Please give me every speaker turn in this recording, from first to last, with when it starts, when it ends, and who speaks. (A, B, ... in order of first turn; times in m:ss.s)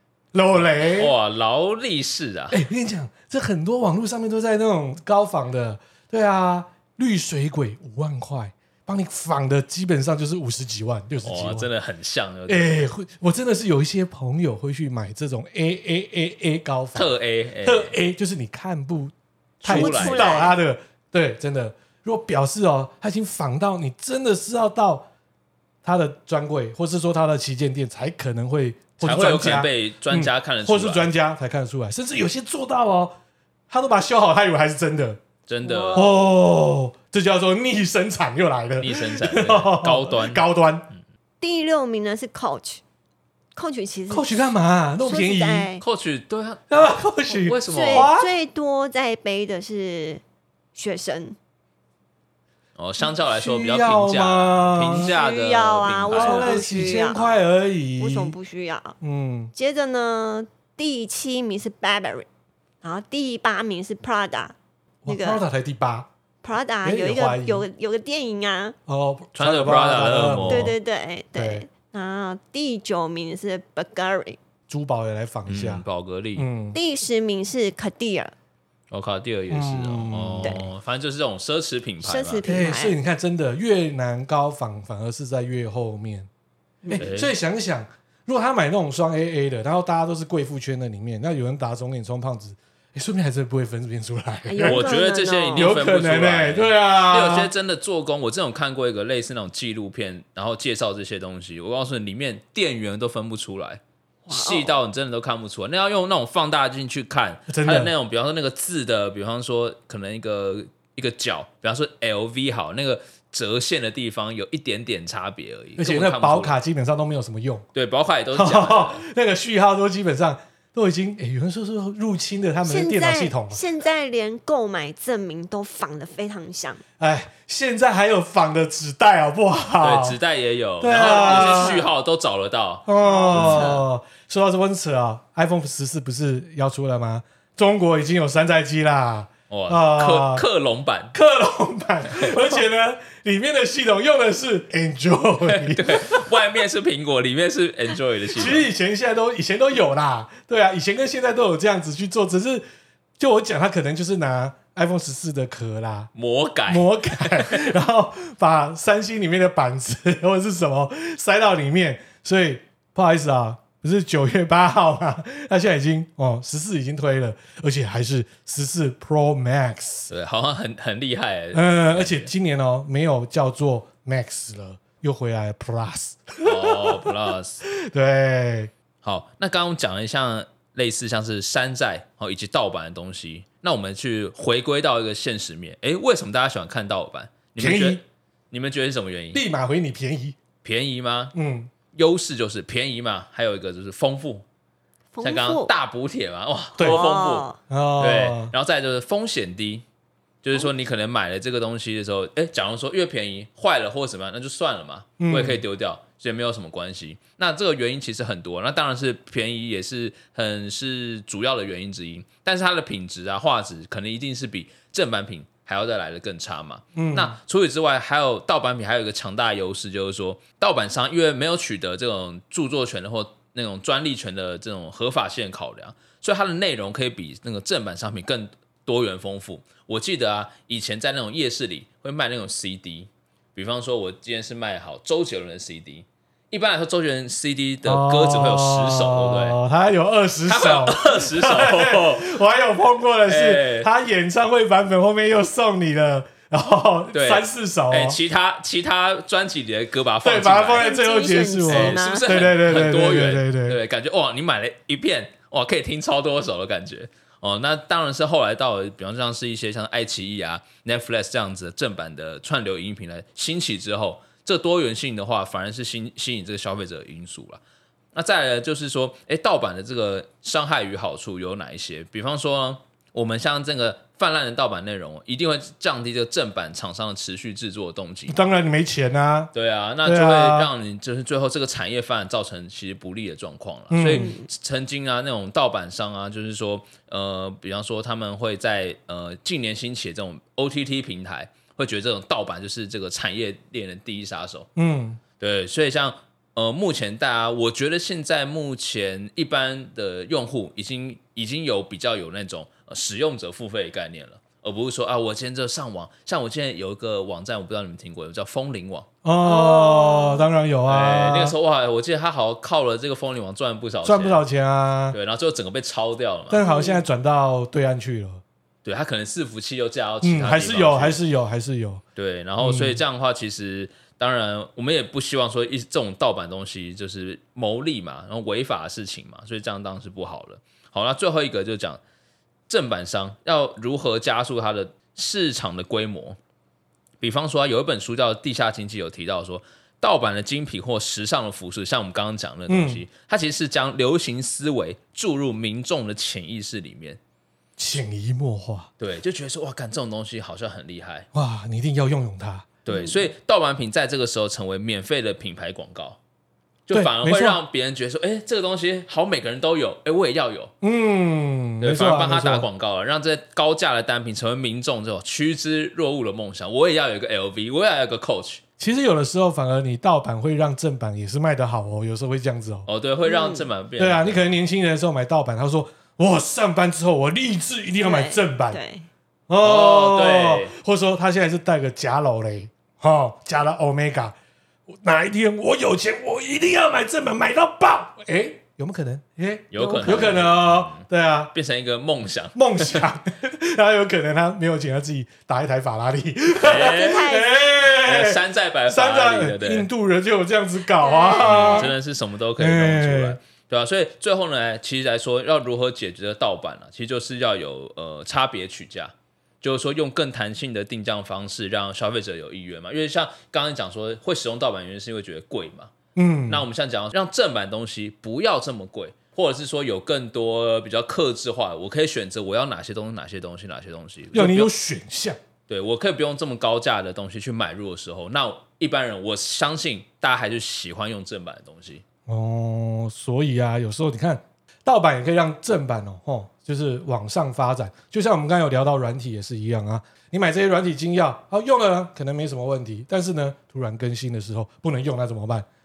0:00.3-0:01.2 A
0:00.8-0:02.6 B
0:02.5-0:11.7 A
0:11.2-0:12.9 B
0:12.5-0:25.1 A
0:17.0-0:18.0 B
0:19.6-0:20.4 B
0:19.7-0:20.5 C
0:25.8-0:33.2 A
0:29.0-0:31.1 B
0:33.7-0:35.2 A
0:35.5-0:36.1 B
0:35.6-0:36.1 C
0:35.9-0:40.9 A
0:38.8-0:41.0 B
0:41.4-0:42.8 C
0:43.6-0:45.8 C
0:44.1-0:45.7 A
0:45.8-0:48.1 B
0:46.7-0:48.3 A
0:47.7-0:50.2 C
0:50.7-0:51.4 C
0:52.8-0:56.6 B
0:53.2-0:55.1 A
0:54.9-0:57.4 C
0:56.1-0:58.4 A
0:58.0-0:59.0 C
0:59.0-0:59.5 A
0:59.6-1:02.3 C
1:02.8-1:04.6 C
1:05.0-1:06.1 A
1:05.1-1:05.4 C
1:06.4-1:08.8 C
1:06.8-1:07.6 A
1:08.9-1:10.7 A
1:09.4-1:10.7 B
1:10.5-1:14.4 C
1:11.4-1:11.7 A
1:14.7-1:15.8 A
1:15.5-1:16.5 B
1:16.4-1:16.8 A
1:16.7-1:18.3 C
1:18.9-1:22.4 B
1:19.5-1:20.6 A
1:22.0-1:23.0 C
1:22.4-1:26.3 A
1:26.9-1:34.9 A
1:27.0-1:27.3 B
1:34.4-1:35.7 C
1:34.6-1:56.6 B
1:35.5-1:37.5 A
1:44.3-1:44.7 C
1:47.5-1:47.9 A
1:55.8-1:57.6 A
1:57.7-1:59.0 B
1:58.3-2:03.6 A
2:02.7-2:06.8 C
2:07.0-2:10.2 A
2:09.8-2:13.8 B
2:10.8-2:11.9 A
2:11.0-2:11.8 C
2:12.9-2:20.4 A
2:13.0-2:13.8 C
2:19.5-2:21.1 B
2:21.1-2:26.3 A
2:25.4-2:28.7 B
2:28.3-2:32.7 A
2:33.2-2:36.1 A
2:36.1-2:37.7 B
2:36.7-2:50.1 A
2:50.1-2:52.3 B
2:51.5-2:57.1 A
2:56.4-2:57.6 B
2:57.7-2:58.7 A
2:59.0-3:09.4 B
3:07.6-3:08.0 A
3:09.3-3:10.4 A
3:10.6-3:11.3 B
3:11.3-3:11.7 A
3:11.9-3:14.4 B
3:15.1-3:15.7 C
3:15.2-3:19.8 B
3:16.8-3:17.6 C
3:17.7-3:18.5 A
3:20.4-3:59.6 B
3:25.2-3:25.6 A
3:37.0-3:37.4 A
3:57.8-4:08.2 A
4:00.5-4:02.4 B
4:03.3-4:03.9 B
4:07.1-4:10.9 B
4:10.2-4:13.8 A
4:10.8-4:12.3 C
4:11.7-4:27.6 B
4:28.1-4:38.4 B
4:38.3-4:39.5 A
4:39.5-4:54.7 B
4:40.0-4:40.7 A
4:43.9-4:44.3 A
4:44.2-4:44.5 C
4:54.8-4:55.2 A
4:55.4-5:09.1 B
5:09.2-5:11.6 A
5:09.4-5:10.4 C
5:10.9-5:14.4 B
5:14.0-5:15.2 A
5:15.1-5:16.6 B
5:16.5-5:18.4 A
5:16.6-5:17.0 C
5:18.8-5:21.2 B
5:20.2-5:22.0 A
5:22.2-5:32.0 B
5:22.6-5:23.0 A
5:32.7-5:36.4 B
5:37.2-5:47.2 B
5:42.7-5:43.0 A
5:47.8-5:48.9 A
5:49.0-5:51.3 B
5:51.3-5:52.8 A
5:52.8-5:56.2 B
5:56.9-6:00.7 B
5:56.9-5:57.6 A
6:00.8-6:02.7 A
6:01.8-6:08.6 B
6:08.8-6:12.9 A
6:12.9-6:14.5 B
6:13.2-6:13.6 C
6:14.0-6:18.8 A
6:18.0-6:19.1 C
6:19.5-6:24.4 A
6:19.6-6:20.7 B
6:24.9-6:31.5 A
6:29.7-6:33.0 B
6:29.8-6:30.3 C
6:32.6-6:41.9 A
6:36.6-6:37.3 B
6:36.7-6:37.6 C
6:37.9-6:39.9 B
6:41.0-6:41.9 C
6:41.4-6:55.9 B
6:42.6-6:43.4 A
6:56.1-6:56.7 A
6:56.5-7:04.7 B
7:04.3-7:05.4 A
7:05.7-7:12.0 B
7:12.3-7:25.7 A